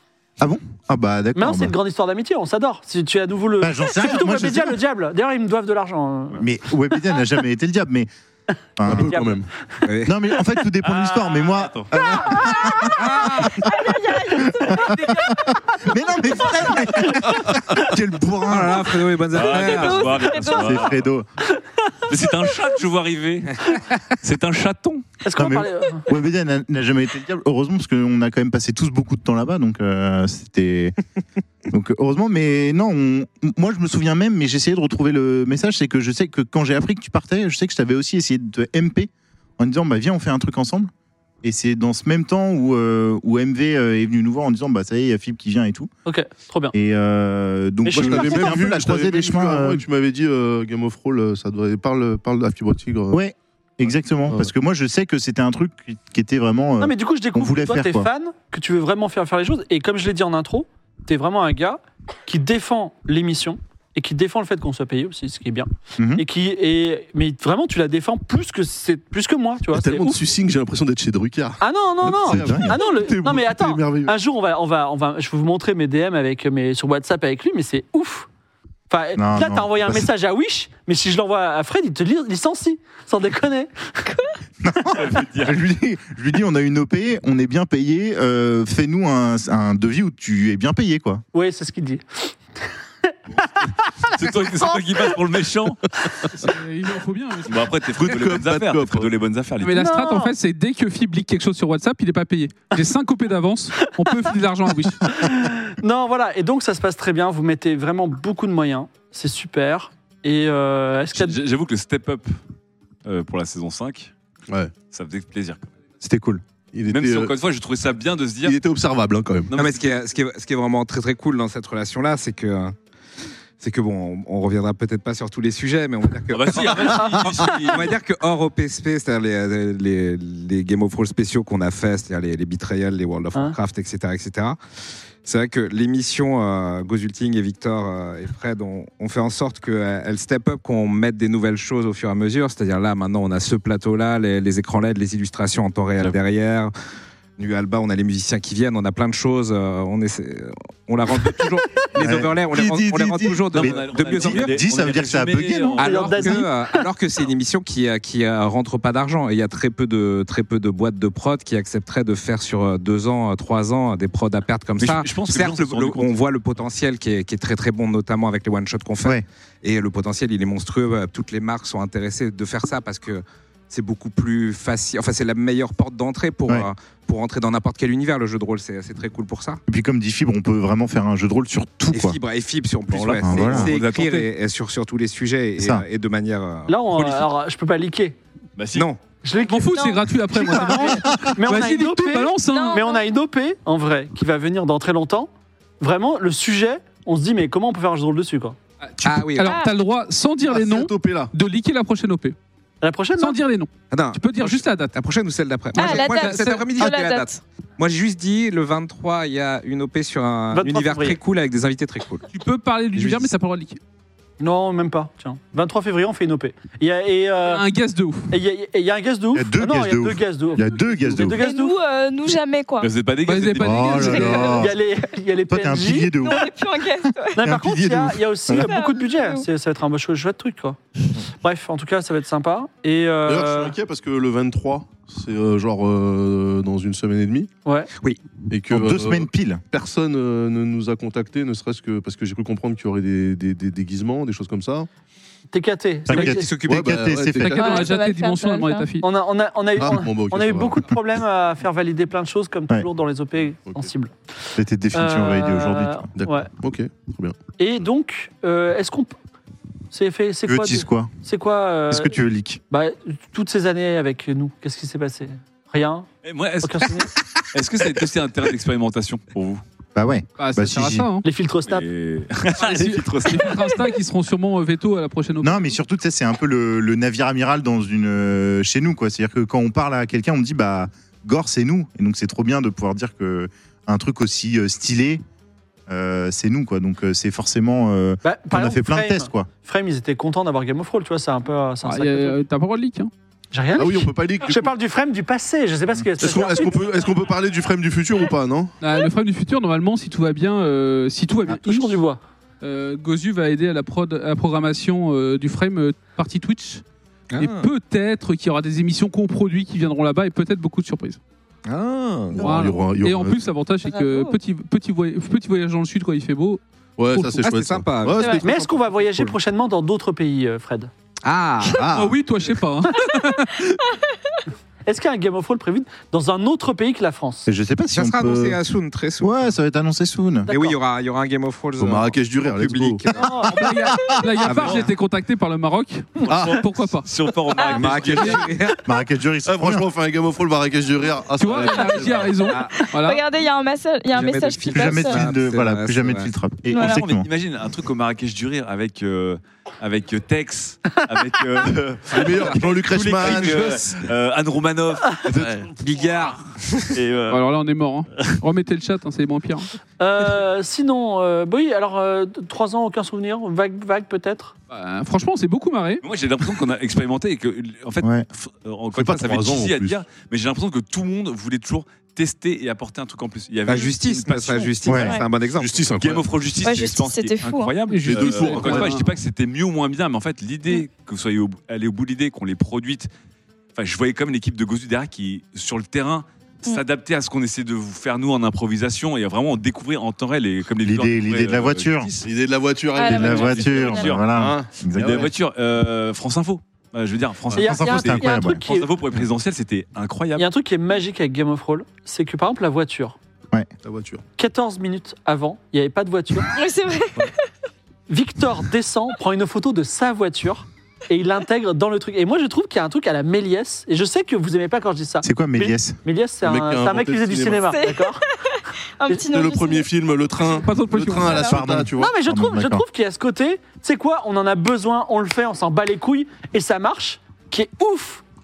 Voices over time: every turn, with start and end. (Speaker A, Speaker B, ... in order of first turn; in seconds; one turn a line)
Speaker A: 0.4-1.7
Speaker B: 1.4-6.4
Speaker A: 3.6-4.8
Speaker A: 6.4-8.1
Speaker A: 8.8-9.1
Speaker C: 8.8-9.5
Speaker B: 9.0-9.4
Speaker D: 9.8-10.2
Speaker A: 10.0-19.1
Speaker E: 10.8-11.9
Speaker F: 12.2-17.0
Speaker D: 12.9-13.5
Speaker D: 18.5-20.3
Speaker E: 19.3-21.1
Speaker F: 19.5-21.0
Speaker A: 20.3-21.2
Speaker E: 22.1-25.0
Speaker B: 25.2-26.1
Speaker A: 25.4-30.9
Speaker A: 31.7-40.9
Speaker A: 41.4-45.9
Speaker B: 46.0-46.7
Speaker A: 46.7-49.8
Speaker B: 47.9-48.5
Speaker C: 47.9-53.2
Speaker A: 53.1-58.1
Speaker B: 56.8-70.2
Speaker A: 66.0-66.2
Speaker C: 69.7-74.1
Speaker B: 71.6-78.3
Speaker A: 72.2-72.8
Speaker B: 78.9-84.1
Speaker A: 79.2-80.1
Speaker A: 84.6-91.2
Speaker E: 84.9-85.6
Speaker B: 91.3-92.3
Speaker B: 93.0-95.1
Speaker E: 93.4-95.9
Speaker G: 96.3-97.7
Speaker E: 97.5-99.8
Speaker C: 98.0-99.1
Speaker G: 99.6-105.0
Speaker B: 99.7-100.3
Speaker B: 105.0-111.4
Speaker E: 111.1-112.4
Speaker E: 113.0-114.1
Speaker E: 114.9-115.7
Speaker A: 116.0-116.4
Speaker C: 116.7-117.3
Speaker E: 116.9-118.6
Speaker C: 118.4-119.5
Speaker E: 119.5-120.0
Speaker D: 119.5-122.8
Speaker D: 123.6-134.6
Speaker E: 126.3-128.0
Speaker D: 135.2-146.7
Speaker D: 147.4-154.5
Speaker A: 152.0-155.8
Speaker E: 153.5-156.3
Speaker D: 155.8-179.6
Speaker B: 155.8-156.9
Speaker E: 164.8-166.2
Speaker A: 179.7-182.2
Speaker D: 181.9-187.2
Speaker E: 182.9-184.2
Speaker A: 183.2-183.7
Speaker G: 184.0-184.2
Speaker A: 185.6-185.8
Speaker B: 186.7-188.2
Speaker E: 188.6-188.9
Speaker D: 188.7-189.0
Speaker B: 189.2-195.3
Speaker G: 189.4-192.8
Speaker F: 189.6-191.2
Speaker F: 192.4-193.1
Speaker B: 195.8-198.6
Speaker G: 198.8-202.3
Speaker D: 199.0-199.6
Speaker F: 199.4-199.8
Speaker C: 200.4-201.3
Speaker B: 202.8-203.4
Speaker G: 203.2-204.9
Speaker D: 203.9-212.3
Speaker F: 205.7-207.4
Speaker G: 205.8-206.7
Speaker B: 210.5-211.2
Speaker G: 212.3-213.8
Speaker D: 212.9-213.3
Speaker B: 214.4-217.6
Speaker G: 217.5-218.3
Speaker B: 218.3-221.8
Speaker A: 219.3-221.4
Speaker F: 221.3-222.9
Speaker E: 222.8-224.2
Speaker G: 223.2-224.5
Speaker A: 223.6-224.7
Speaker F: 223.9-224.7
Speaker B: 224.6-226.4
Speaker A: 225.5-228.7
Speaker F: 226.1-227.4
Speaker B: 227.3-230.8
Speaker F: 228.5-229.4
Speaker B: 231.4-233.7
Speaker C: 233.2-237.5
Speaker C: 238.5-244.9
Speaker A: 238.7-239.6
Speaker B: 245.5-246.5
Speaker A: 246.1-247.6
Speaker D: 246.1-247.1
Speaker C: 246.6-247.8
Speaker G: 247.4-249.1
Speaker F: 247.5-248.9
Speaker B: 249.0-254.1
Speaker C: 249.8-250.9
Speaker A: 254.6-256.1
Speaker B: 254.9-256.5
Speaker C: 256.1-257.4
Speaker B: 257.6-259.1
Speaker B: 259.9-262.2
Speaker A: 260.5-261.1
Speaker A: 261.9-262.6
Speaker B: 262.7-266.1
Speaker E: 266.2-269.6
Speaker B: 266.6-267.1
Speaker A: 269.9-271.1
Speaker G: 270.4-271.3
Speaker B: 271.2-271.9
Speaker E: 271.7-273.7
Speaker G: 272.6-275.7
Speaker A: 275.4-285.2
Speaker A: 285.9-289.5
Speaker B: 288.2-292.4
Speaker G: 291.8-293.1
Speaker B: 293.5-296.9
Speaker C: 293.8-294.7
Speaker C: 296.2-298.8
Speaker G: 298.8-302.0
Speaker B: 301.5-302.2
Speaker G: 302.6-306.8
Speaker D: 307.3-307.7
Speaker G: 307.4-311.2
Speaker D: 311.6-312.5
Speaker C: 312.3-313.4
Speaker G: 312.4-317.5
Speaker F: 313.8-314.4
Speaker C: 317.0-318.6
Speaker D: 317.4-319.3
Speaker F: 318.2-318.4
Speaker B: 318.4-320.9
Speaker D: 321.2-322.1
Speaker C: 321.7-322.1
Speaker G: 321.8-323.6
Speaker F: 323.6-324.4
Speaker B: 324.9-327.5
Speaker A: 327.4-328.6
Speaker D: 327.9-329.5
Speaker A: 329.2-330.5
Speaker B: 330.4-330.8
Speaker D: 330.5-333.6
Speaker C: 331.8-333.1
Speaker B: 333.1-333.5
Speaker G: 333.5-337.1
Speaker A: 333.9-334.2
Speaker D: 334.4-334.9
Speaker E: 336.2-338.5
Speaker C: 336.3-336.6
Speaker D: 337.6-338.8
Speaker F: 337.6-337.9
Speaker G: 338.0-338.4
Speaker A: 338.8-339.9
Speaker C: 339.4-342.3
Speaker G: 341.4-343.2
Speaker F: 341.6-345.2
Speaker D: 342.4-342.8
Speaker D: 344.1-346.3
Speaker A: 344.6-347.3
Speaker F: 346.7-347.0
Speaker E: 346.7-356.3
Speaker C: 352.1-354.1
Speaker D: 353.2-353.7
Speaker C: 355.3-355.7
Speaker D: 355.8-357.0
Speaker E: 356.9-357.4
Speaker G: 357.3-359.7
Speaker E: 358.1-358.4
Speaker B: 360.0-364.5
Speaker G: 364.7-366.0
Speaker E: 366.0-375.0
Speaker C: 368.9-370.0
Speaker D: 373.6-375.9
Speaker A: 374.8-375.2
Speaker F: 374.9-375.3
Speaker C: 375.5-376.2
Speaker E: 376.0-383.1
Speaker F: 376.6-377.8
Speaker G: 377.9-379.1
Speaker C: 378.0-379.0
Speaker E: 383.7-392.2
Speaker A: 390.8-392.1
Speaker C: 392.2-395.3
Speaker F: 392.9-393.9
Speaker A: 393.0-395.2
Speaker E: 393.2-394.3
Speaker E: 394.9-400.4
Speaker B: 397.5-398.9
Speaker A: 397.6-398.6
Speaker B: 400.4-403.2
Speaker C: 403.8-404.2
Speaker B: 404.4-406.5
Speaker F: 406.5-407.3
Speaker B: 408.1-418.2
Speaker A: 415.2-416.0
Speaker C: 416.4-417.8
Speaker F: 417.7-420.5
Speaker C: 419.2-422.1
Speaker G: 420.5-421.5
Speaker F: 421.2-421.6
Speaker A: 421.4-422.8
Speaker B: 422.0-428.2